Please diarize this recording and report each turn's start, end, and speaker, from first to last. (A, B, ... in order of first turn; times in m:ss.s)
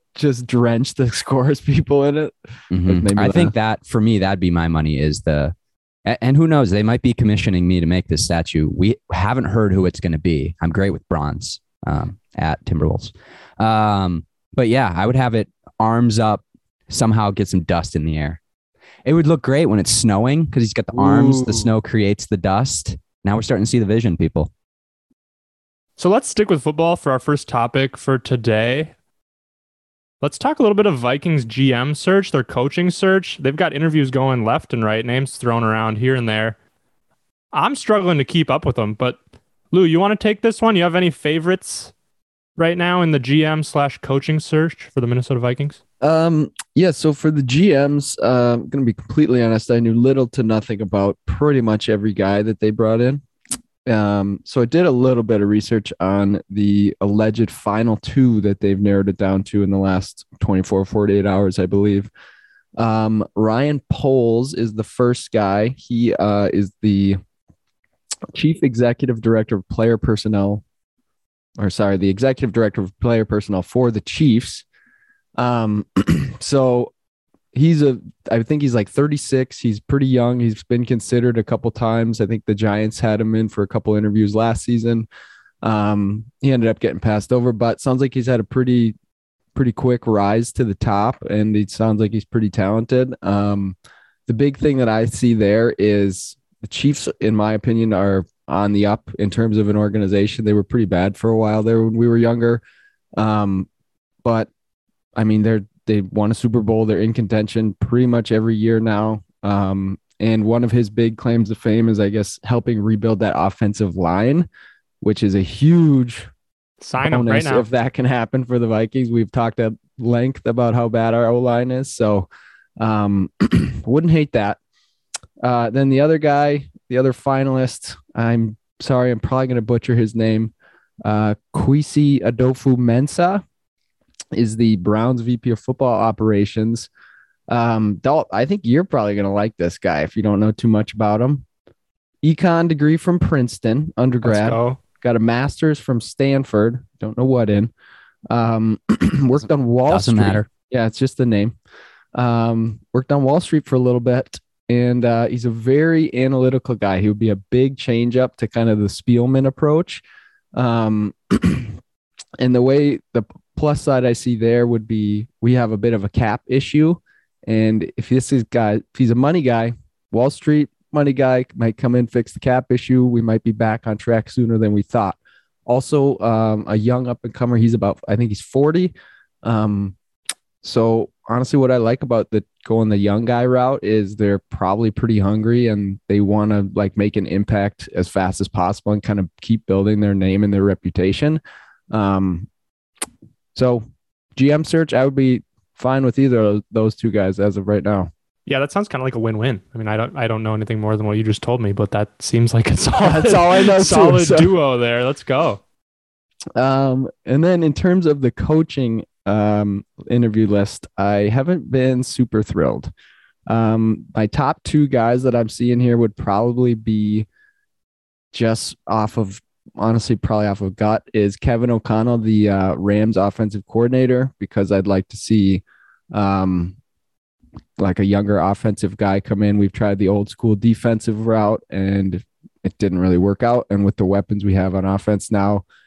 0:00.1-0:03.5 A
0:02.7-0:05.5 B
0:06.0-0:18.4 B
0:19.0-0:24.5 B
0:20.9-0:21.7 A
0:26.0-0:28.9 C
0:30.2-0:36.6 C
0:37.5-0:39.2 C
0:39.7-0:41.9 C
0:42.6-0:45.8 C
0:46.0-0:53.2 A
0:53.8-1:02.1 A
1:02.8-1:07.2 A
1:08.3-1:10.6 A
1:11.6-1:14.6 A
1:15.4-1:16.9 A
1:17.5-1:25.1 A
1:25.6-1:28.9 A
1:29.5-1:33.8 A
1:34.3-1:42.6 A
1:43.2-1:43.7 A
1:44.2-1:44.5 A
1:45.1-1:54.5 A
1:55.0-1:56.3 A
1:56.8-1:57.7 C
1:57.0-2:02.3 A
2:02.8-2:04.6 A
2:05.4-2:10.5 A
2:11.0-2:13.4 A
2:14.3-2:16.9 A
2:17.5-2:21.4 A
2:22.2-2:27.7 A
2:24.2-2:24.8 C
2:28.3-2:31.6 A
2:29.9-2:30.5 B
2:32.1-2:40.0 A
2:40.6-2:41.8 A
2:42.4-3:00.0 A
3:00.6-3:12.5 A
3:13.5-3:18.1 A
3:18.4-3:25.6 C
3:23.0-3:24.5 A
3:26.6-3:32.9 A
3:33.5-3:37.3 A
3:38.3-3:46.8 A
3:47.8-3:55.6 A